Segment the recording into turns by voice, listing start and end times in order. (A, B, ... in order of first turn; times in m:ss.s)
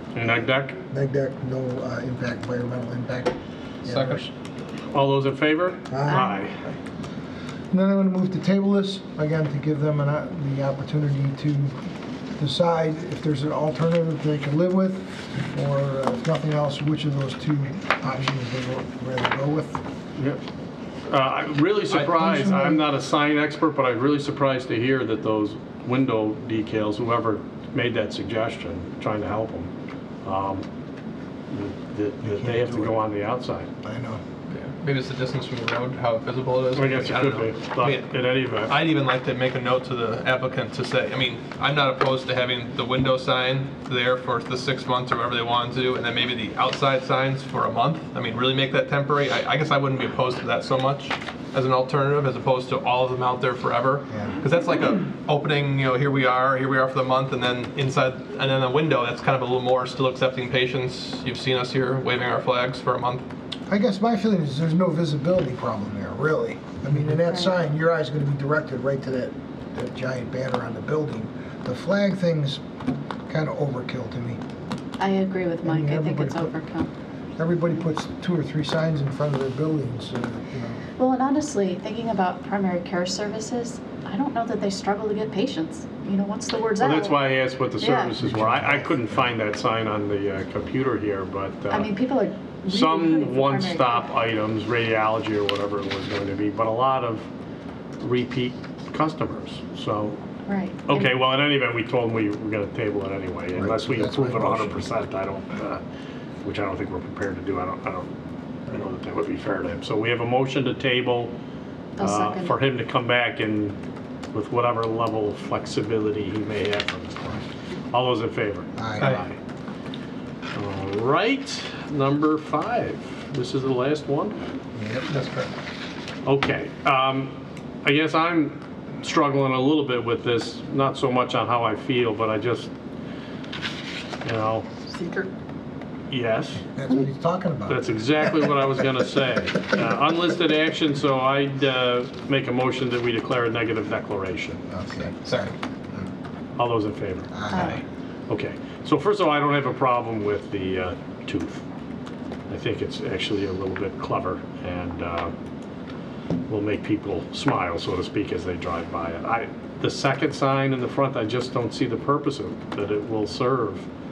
0:00.2-0:00.8 A
0:00.9-0:04.2 B
0:03.8-0:04.3 C
0:04.9-0:06.6 A
0:05.9-0:06.4 B
0:06.1-0:06.5 D
0:07.7-0:11.8 B
0:12.4-0:19.8 B
0:21.1-0:29.7 A
0:22.2-0:22.8 B
0:30.2-0:30.7 A
0:31.5-0:33.7 A
0:32.2-0:33.0 B
0:33.8-0:34.2 B
0:34.5-0:38.1 C
0:36.8-0:38.8 A
0:38.7-1:03.2 C
0:54.1-0:54.4 B
1:03.7-1:12.6 B
1:13.3-1:14.4 B
1:15.0-1:16.9 D
1:15.6-1:16.5 B
1:17.4-1:20.8 B
1:21.0-1:27.3 D
1:26.8-1:32.0 A
1:27.8-1:28.1 D
1:28.2-1:29.2 B
1:31.7-1:34.1 D
1:32.7-1:37.3 A
1:38.0-1:40.2 A
1:40.5-1:41.2 D
1:40.9-1:45.8 A
1:43.6-1:44.9 B
1:46.4-1:48.1 A
1:48.7-1:51.3 A
1:52.0-1:52.6 D
1:52.0-1:53.8 A
1:54.3-1:59.4 A
1:58.8-1:59.1 B
1:59.0-1:59.2 C
2:00.5-2:04.4 A
2:04.8-2:05.1 B
2:05.1-2:05.5 C
2:06.2-2:12.7 A
2:14.2-2:14.7 A
2:14.9-2:15.3 D
2:16.1-2:16.6 A
2:16.6-2:17.8 B
2:17.7-2:24.6 A
2:24.7-2:26.1 B
2:25.2-2:25.5 C
2:26.6-2:27.4 A
2:27.3-2:27.8 B
2:27.5-2:27.8 D
2:28.3-2:31.6 A
2:32.5-2:35.3 A
2:36.5-2:43.9 A